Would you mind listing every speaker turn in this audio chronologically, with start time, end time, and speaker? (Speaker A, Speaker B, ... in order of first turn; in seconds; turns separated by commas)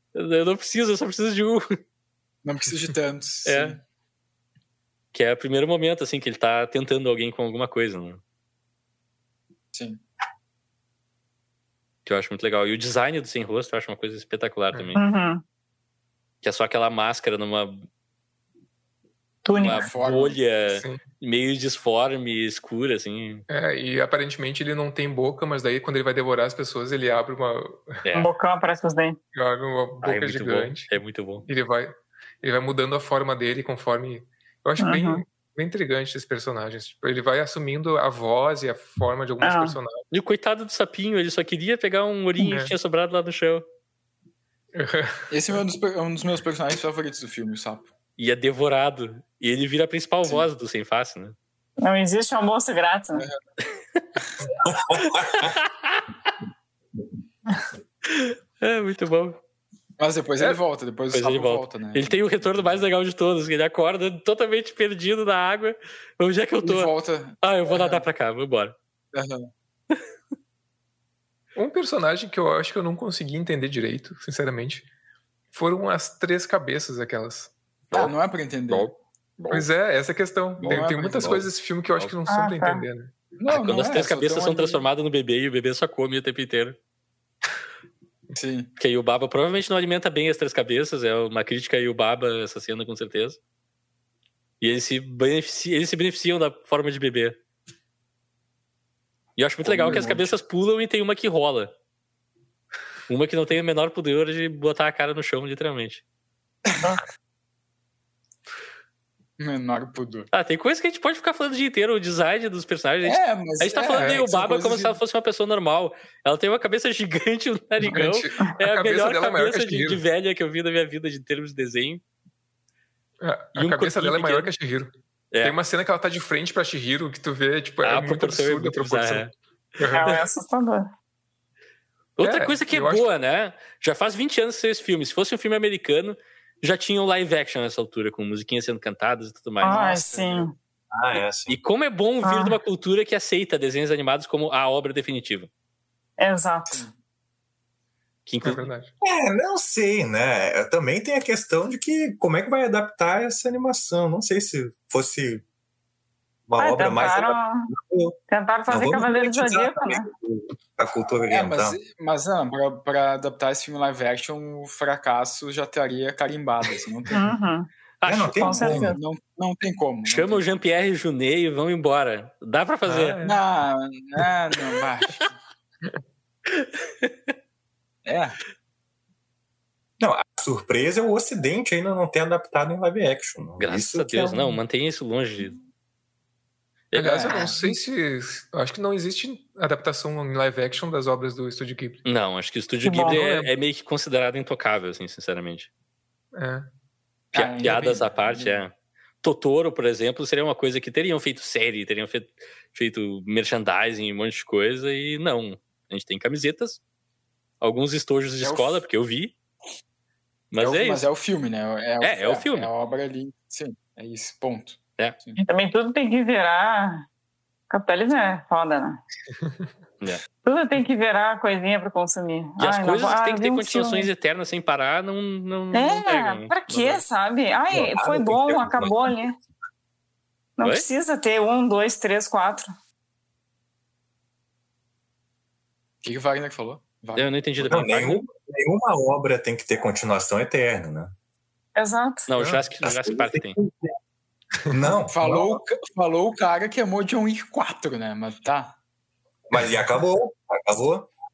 Speaker A: 0.1-1.6, Speaker B: 2.4-3.8, Speaker A: 3.4-3.8, Speaker A: 5.1-8.2, Speaker B: 9.7-10.0, Speaker A: 12.1-15.0, Speaker C: 14.9-15.4, Speaker A: 16.4-17.9, Speaker C: 19.4-19.9, Speaker A: 19.5-23.4, Speaker B: 19.6-20.4, Speaker D: 20.7-21.0, Speaker D: 23.5-28.0, Speaker A: 28.0-28.3, Speaker C: 28.1-29.2, Speaker D: 29.3-30.9, Speaker A: 30.0-31.4, Speaker D: 31.4-40.0, Speaker C: 34.8-35.2, Speaker C: 39.4-39.8, Speaker A: 40.1-43.6, Speaker D: 42.4-42.7, Speaker D: 44.7-45.3, Speaker B: 45.3-47.9, Speaker A: 48.2-51.3, Speaker C: 51.8-53.2, Speaker E: 54.6-55.5, Speaker A: 55.3-56.0, Speaker A: 58.1-59.4, Speaker B: 60.0-62.1, Speaker A: 61.1-68.7, Speaker B: 66.6-68.0, Speaker B: 69.1-69.5, Speaker D: 71.5-74.8, Speaker D: 75.5-77.5, Speaker B: 77.9-79.7, Speaker D: 79.5-83.1, Speaker B: 80.6-81.5, Speaker C: 82.3-82.8, Speaker B: 83.4-84.8, Speaker A: 83.5-86.8, Speaker B: 88.3-88.7, Speaker A: 88.8-93.4, Speaker A: 94.6-97.3, Speaker A: 99.3-101.7, Speaker B: 99.7-100.3, Speaker A: 103.1-106.0, Speaker B: 109.4-110.3, Speaker A: 110.3-122.0, Speaker B: 113.0-115.0, Speaker D: 117.8-120.0, Speaker D: 123.2-124.9, Speaker A: 123.5-124.5, Speaker D: 125.4-130.1, Speaker A: 127.8-129.3, Speaker A: 129.9-130.2, Speaker C: 129.9-130.9, Speaker A: 132.2-140.0, Speaker D: 132.2-133.1, Speaker C: 139.6-140.5, Speaker B: 139.6-140.5, Speaker E: 140.9-141.6, Speaker A: 141.5-145.5, Speaker C: 142.2-142.6, Speaker C: 146.2-146.8, Speaker B: 146.7-146.9, Speaker A: 148.2-148.7, Speaker D: 148.4-148.9, Speaker E: 149.0-155.4, Speaker E: 156.5-158.2, Speaker C: 156.6-157.7, Speaker C: 158.3-160.1, Speaker E: 158.7-161.8, Speaker B: 161.3-167.2, Speaker C: 167.1-167.7, Speaker A: 168.0-168.4, Speaker E: 168.1-169.0, Speaker C: 168.4-169.0, Speaker B: 168.5-170.4, Speaker A: 170.1-173.2, Speaker D: 172.8-173.4, Speaker B: 173.2-175.3, Speaker A: 176.5-177.1, Speaker B: 178.1-178.4, Speaker E: 180.0-184.4, Speaker A: 183.6-185.6, Speaker A: 186.9-187.5, Speaker D: 186.9-192.0, Speaker B: 187.1-187.6, Speaker A: 192.0-195.7, Speaker C: 192.8-193.4, Speaker D: 193.1-193.4, Speaker D: 196.3-196.7, Speaker B: 197.3-198.6, Speaker A: 197.3-206.8, Speaker A: 207.6-209.3, Speaker B: 208.4-208.8, Speaker A: 210.5-211.0, Speaker B: 210.6-215.4, Speaker A: 212.0-212.7, Speaker C: 215.4-217.0, Speaker C: 217.7-219.0, Speaker C: 220.4-224.1, Speaker A: 222.6-227.0, Speaker C: 225.7-229.3, Speaker E: 227.7-229.1, Speaker C: 230.6-232.7, Speaker B: 236.0-237.3, Speaker A: 237.1-238.2, Speaker E: 237.6-241.1, Speaker C: 241.8-242.3, Speaker A: 242.3-243.6, Speaker E: 242.4-243.9, Speaker E: 244.7-245.6, Speaker B: 245.1-248.7, Speaker E: 249.5-251.1